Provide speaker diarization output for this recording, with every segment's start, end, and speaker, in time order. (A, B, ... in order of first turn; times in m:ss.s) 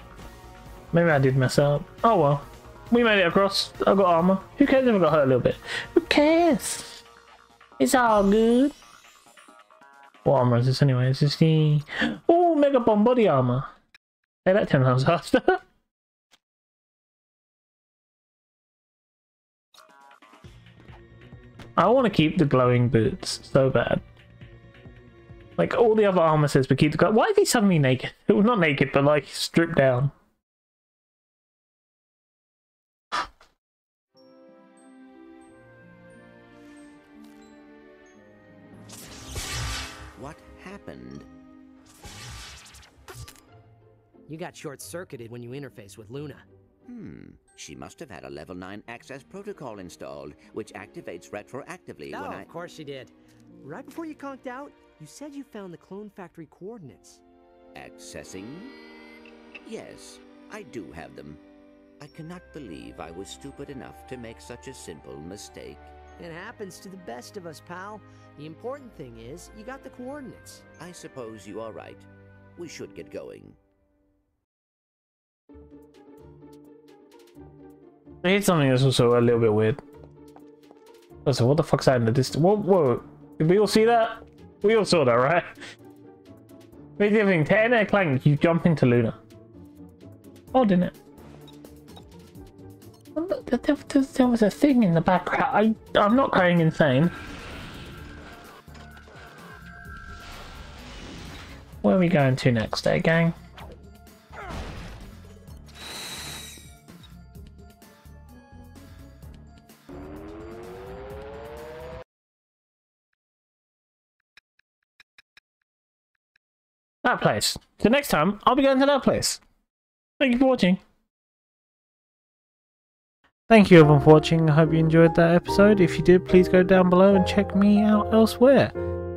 0:00.9-0:07.0 A
0:07.8-0:08.8 A
0:10.2-0:13.7 A
0:14.4-0:15.6 A
0:21.8-0:24.0 A
0:25.6-0:30.1 A
0:40.2-0:41.3 B
0:44.3-0:46.4 C
0:46.9-0:52.5 B
0:52.1-0:57.2 C
0:57.8-0:58.8 B
0:59.6-1:01.4 B
1:02.0-1:05.9 B
1:06.2-1:10.6 C
1:10.8-1:13.6 B
1:18.2-1:19.8 A
1:21.2-1:25.5 A
1:27.0-1:29.2 A
1:30.5-1:30.9 A
1:33.2-1:37.1 A
1:41.8-1:43.4 A
1:57.0-1:59.4 A
2:00.2-2:00.8 A
2:03.5-2:08.8 A